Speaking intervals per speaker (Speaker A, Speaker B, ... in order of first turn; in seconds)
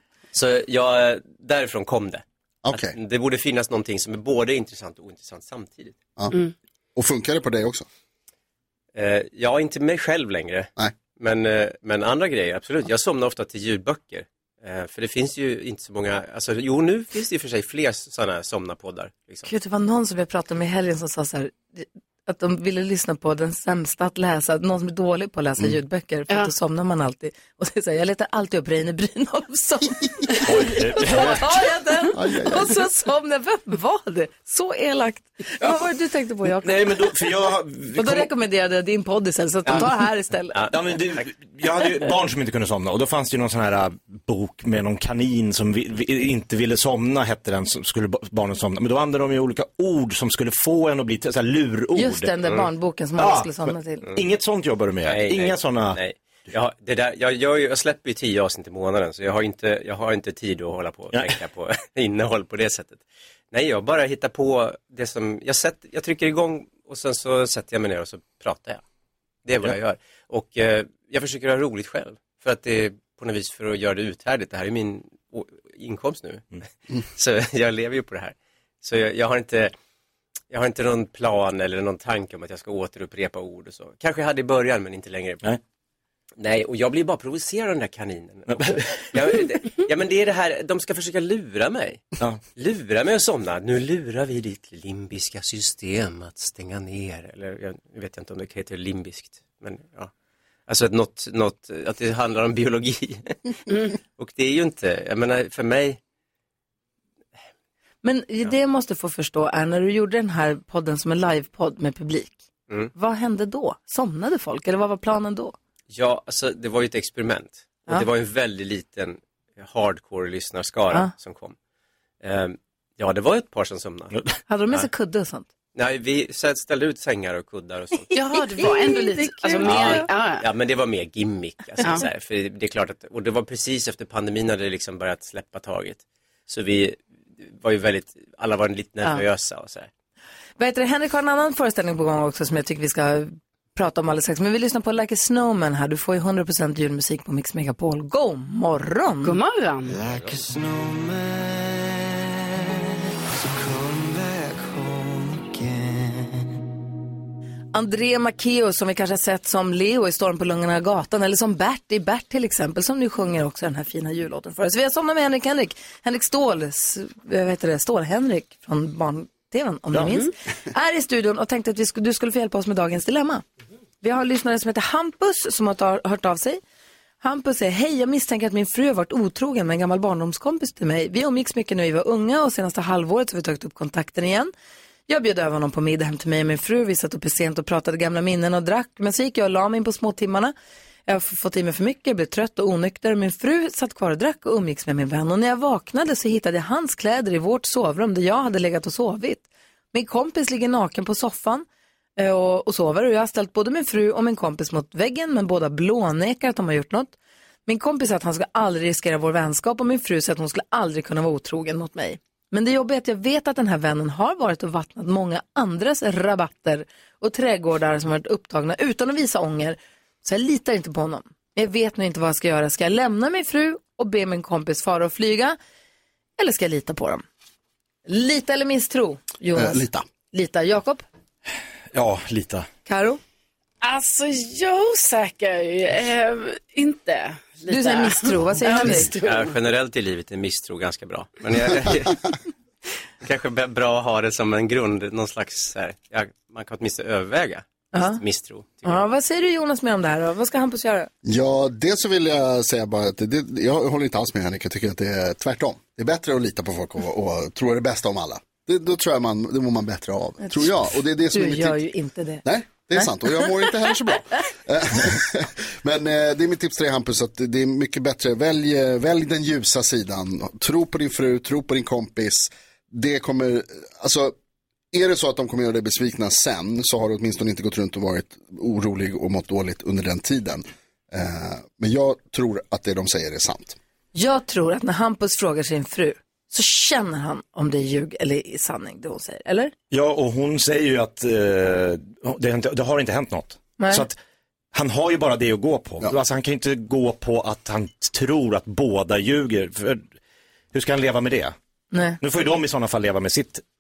Speaker A: 0.3-6.0, 9.0-19.5, 55.1-63.0, 63.5-68.8, 69.5-76.5, 77.2-79.7, 80.5-85.5, 86.4-92.0, 92.6-100.1, 100.7-103.4, 104.2-106.0, 115.9-121.5, 122.2-124.2, 125.8-128.1, 129.6-139.9, 239.2-242.2, 243.2-249.1
Speaker B: 2.6-3.0, 7.0-7.8, 32.1-32.8, 229.5-230.1, 251.2-261.8, 262.4-274.3, 274.9-283.8
Speaker C: 19.5-37.1, 38.0-40.6, 52.0-54.0, 108.0-112.4, 113.0-115.6, 124.5-125.5, 128.1-130.1, 140.6-149.4, 157.7-173.4, 174.0-176.6, 177.2-184.5, 185.1-190.5, 191.1-201.7, 202.2-207.1, 207.7-225.6, 226.4-227.2, 228.1-231.0, 232.9-233.2, 237.7-239.1, 247.9-248.2, 248.8-251.1, 261.3-262.4, 262.9-263.5, 284.1-289.7, 293.8-294.1, 301.9-302.2
Speaker D: 30.4-31.6, 36.6-38.3, 40.7-56.0, 61.1-61.4, 88.5-89.1, 231.9-232.7, 289.9-294.2, 294.7-300.1, 300.7-301.6, 302.2-303.6
Speaker E: 128.1-130.5, 131.8-132.1, 149.2-150.0, 233.8-239.5